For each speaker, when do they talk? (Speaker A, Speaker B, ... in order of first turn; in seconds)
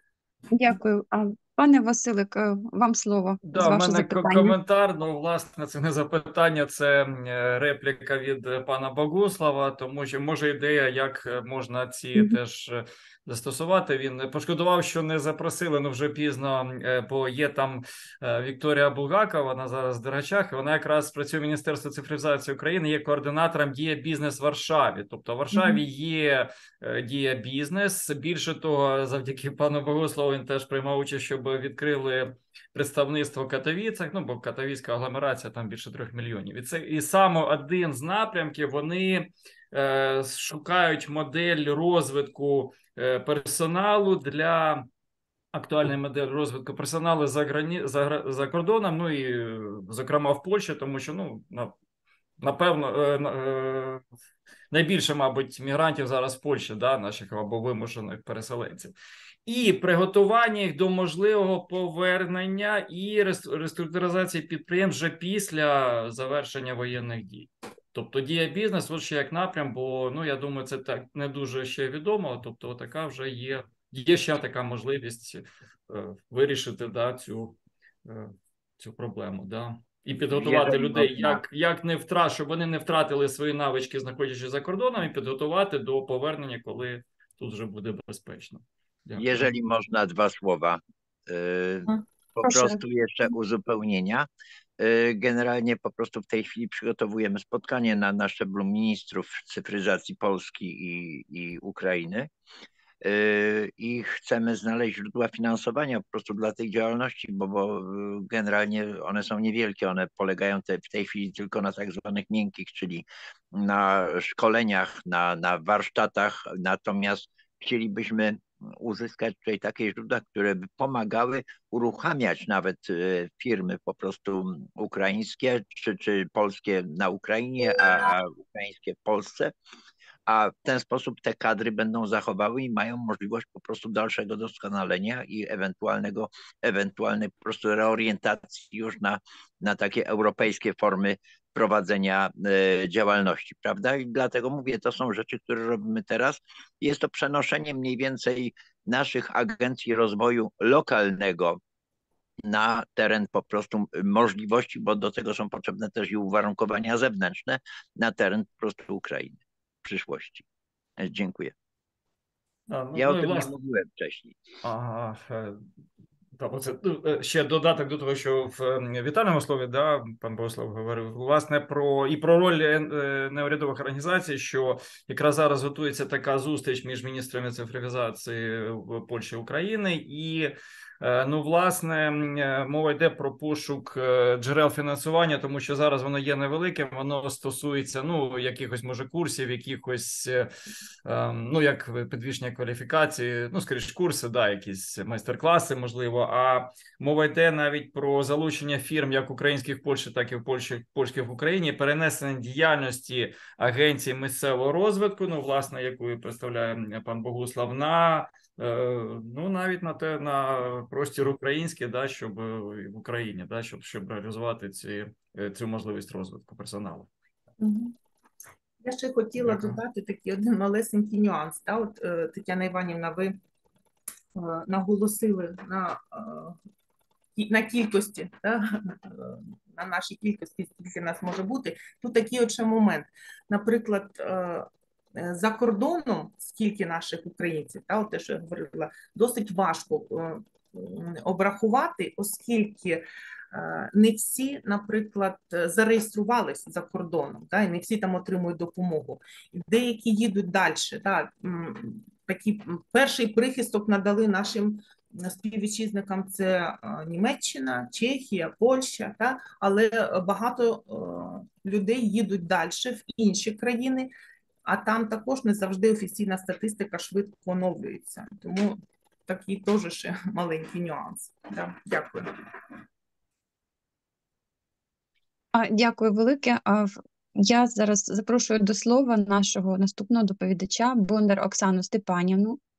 Speaker A: 0.5-4.6, 92.4-92.8, 275.6-282.6
Speaker B: 3.5-44.9, 45.5-51.8, 52.4-54.0, 54.7-58.9, 59.5-89.5, 162.7-163.5, 164.6-165.6, 166.4-190.5, 191.1-217.1, 219.4-219.8
Speaker C: 80.3-81.4, 89.2-94.3, 94.8-102.3, 103.0-129.5, 130.3-151.6, 152.4-160.4, 161.0-161.5, 162.9-164.4
Speaker D: 217.6-217.9, 218.8-223.4, 224.3-226.6, 227.4-264.1, 264.6-272.3